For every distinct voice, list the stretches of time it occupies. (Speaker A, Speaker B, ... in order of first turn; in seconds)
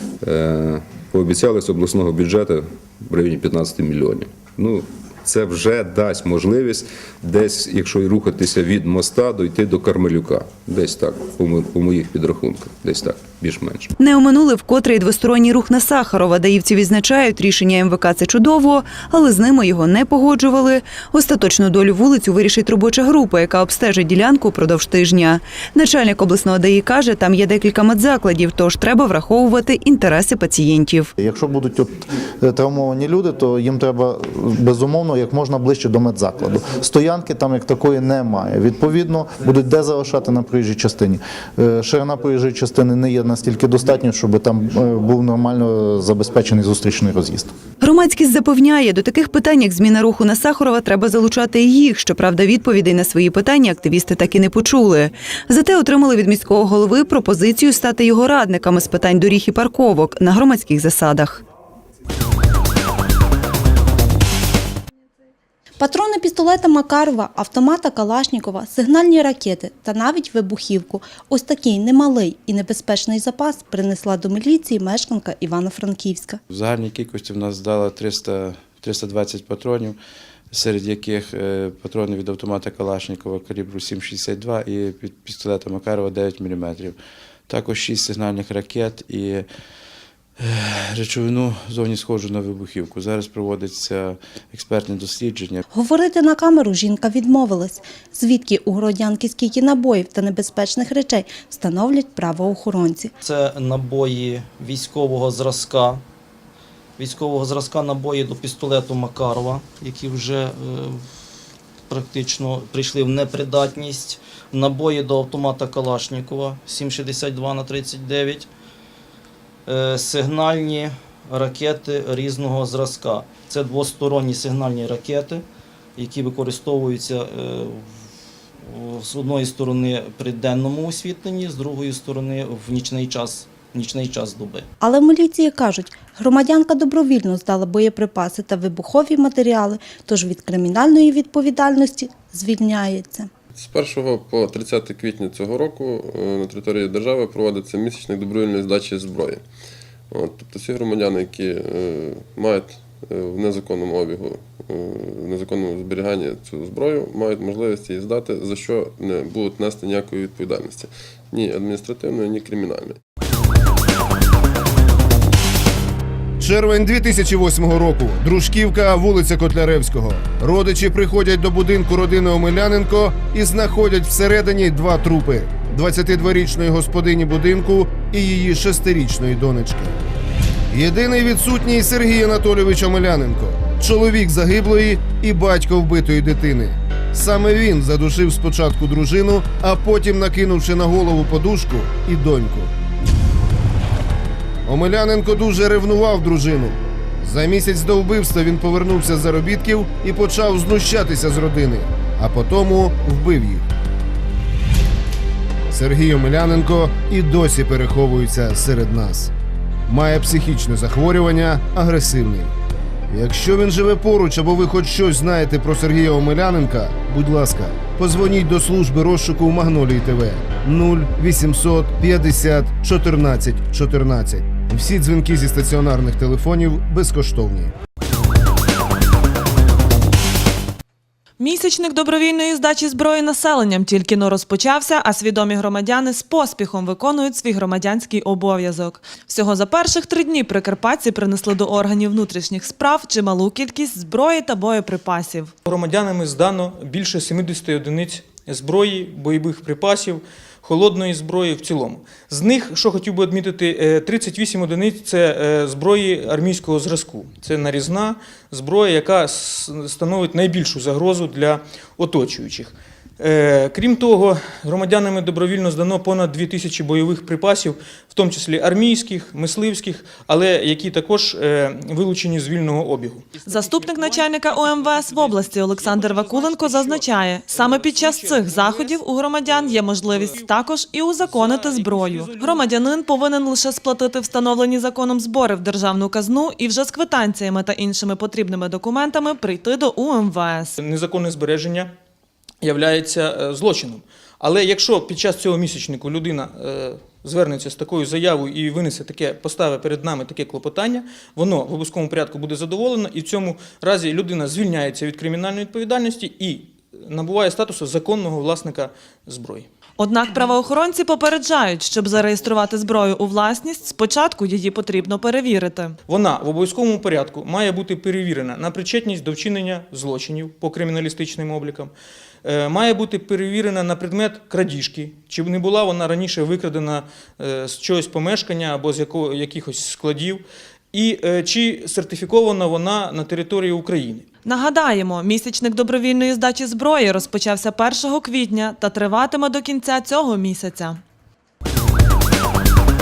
Speaker A: 0.2-13.9
Speaker B: 14.0-31.1, 47.8-61.4
Speaker C: 31.2-47.5
Speaker D: 65.8-76.4, 95.7-103.1, 134.8-143.3
Speaker E: 76.5-80.0, 80.5-87.0, 87.5-89.5, 90.4-95.6
Speaker F: 103.2-106.0, 107.0-111.0, 111.9-118.5, 119.7-125.4, 126.0-127.8, 128.7-134.7
Speaker G: 143.6-149.4, 150.1-163.0
Speaker H: 166.4-180.0, 180.7-192.7, 194.7-203.7, 205.7-209.3, 209.9-212.5, 213.1-227.7
Speaker I: 231.4-245.5, 273.4-290.8, 310.0-316.0, 334.4-341.0
Speaker J: 245.7-274.2, 275.1-278.9, 281.5-282.6, 290.8-291.9, 292.6-309.7, 316.1-334.3